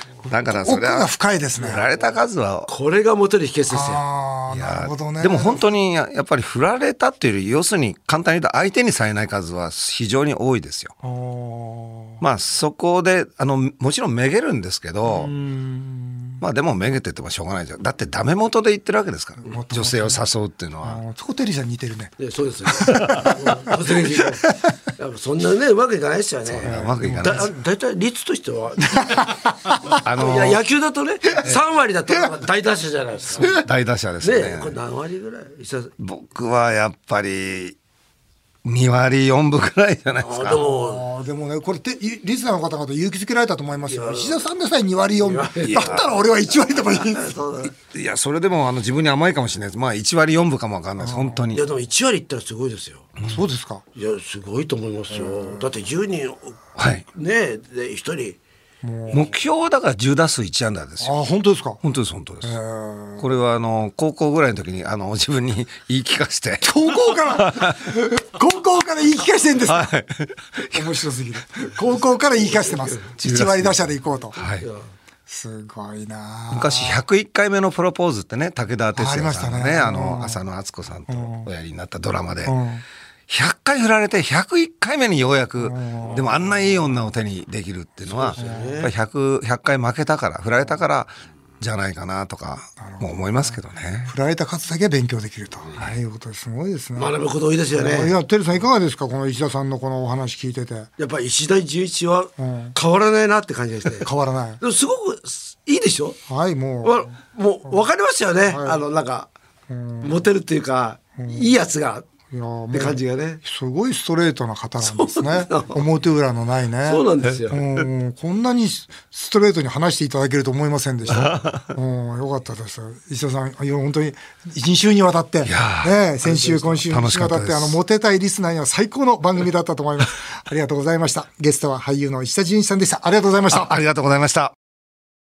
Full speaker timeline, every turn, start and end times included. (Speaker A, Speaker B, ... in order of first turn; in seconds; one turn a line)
Speaker A: 0.3-2.7
Speaker B: 0.3-1.9
Speaker C: 2.7-4.0
Speaker B: 3.7-5.6
Speaker A: 4.5-10.9
Speaker B: 11.0-12.2
Speaker A: 12.2-15.3
Speaker B: 15.1-16.4
Speaker A: 16.4-21.0
Speaker B: 19.4-20.2
Speaker B: 20.8-22.1
Speaker C: 22.2-33.6
Speaker B: 22.7-23.6
Speaker A: 26.4-27.5
Speaker B: 26.6-27.4
Speaker A: 30.0-30.6
Speaker A: 33.4-34.8
Speaker C: 34.2-35.9
Speaker A: 36.0-37.8
Speaker A: 38.6-40.6
Speaker C: 40.2-41.0
Speaker B: 40.6-47.4
Speaker C: 43.9-44.4
Speaker C: 45.2-46.1
Speaker A: 45.7-46.0
Speaker C: 46.9-47.7
Speaker A: 47.6-51.6
Speaker B: 51.0-51.4
Speaker C: 51.5-53.1
Speaker B: 53.2-53.8
Speaker C: 54.0-56.6
Speaker A: 56.8-57.0
Speaker C: 57.1-58.4
Speaker B: 58.8-59.3
Speaker A: 59.1-61.1
Speaker B: 61.0-61.8
Speaker A: 61.8-62.5
Speaker B: 62.4-63.3
Speaker A: 63.2-67.8
Speaker B: 66.6-69.9
Speaker A: 69.7-70.8
Speaker B: 70.7-74.4
Speaker A: 73.2-74.7
Speaker B: 75.3-77.0
Speaker A: 76.5-82.5
Speaker B: 78.9-80.4
Speaker B: 81.1-81.5
Speaker B: 82.5-82.8
Speaker A: 83.3-94.1
Speaker B: 85.6-86.3
Speaker C: 88.1-88.9
Speaker B: 88.4-88.8
Speaker B: 92.8-97.1
Speaker C: 97.0-98.1
Speaker B: 97.7-100.9
Speaker C: 101.0-104.1
Speaker B: 102.4-102.7
Speaker B: 104.0-104.6
Speaker C: 104.6-106.2
Speaker B: 106.3-107.1
Speaker C: 106.8-109.3
Speaker B: 108.5-108.8
Speaker B: 109.7-110.2
Speaker C: 110.0-112.0
Speaker B: 111.2-111.5
Speaker B: 112.3-133.7
Speaker C: 112.7-113.4
Speaker C: 114.8-115.8
Speaker C: 116.8-117.7
Speaker A: 121.1-121.6
Speaker A: 125.4-126.0
Speaker C: 126.2-126.8
Speaker A: 126.9-127.8
Speaker A: 133.5-134.5